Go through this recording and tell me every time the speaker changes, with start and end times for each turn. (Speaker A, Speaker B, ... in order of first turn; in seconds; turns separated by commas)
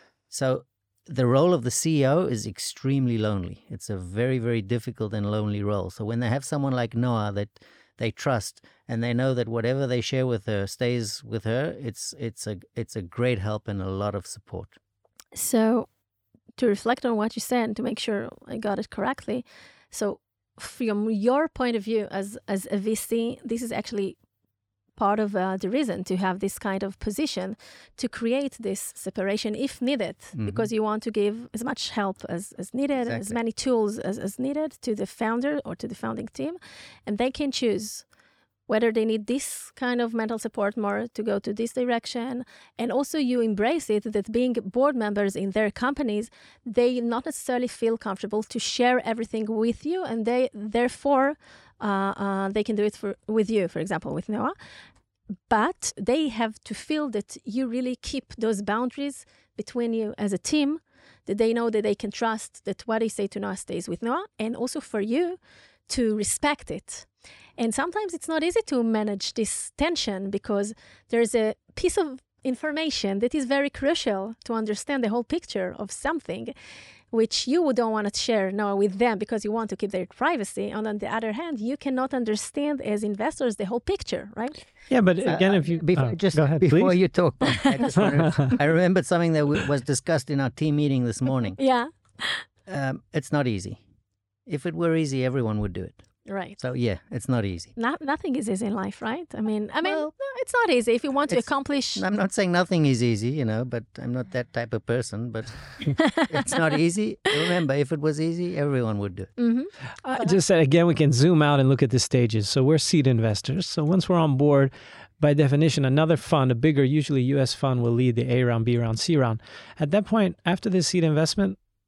Speaker A: 0.3-14.8, Speaker B: 15.3-15.9, Speaker B: 16.6-24.2, Speaker B: 24.9-38.0, Speaker A: 30.3-30.7, Speaker A: 33.0-33.4, Speaker B: 38.7-54.5, Speaker B: 55.5-76.5, Speaker B: 77.1-84.6, Speaker C: 84.9-87.0, Speaker A: 85.2-91.6, Speaker C: 88.0-88.5, Speaker B: 91.6-92.4, Speaker A: 92.7-93.8, Speaker A: 94.5-96.0, Speaker B: 96.2-96.6, Speaker A: 96.6-97.7, Speaker B: 97.8-102.0, Speaker A: 99.8-100.1, Speaker A: 101.3-109.3, Speaker B: 106.0-106.3, Speaker B: 109.4-110.4, Speaker C: 110.1-121.6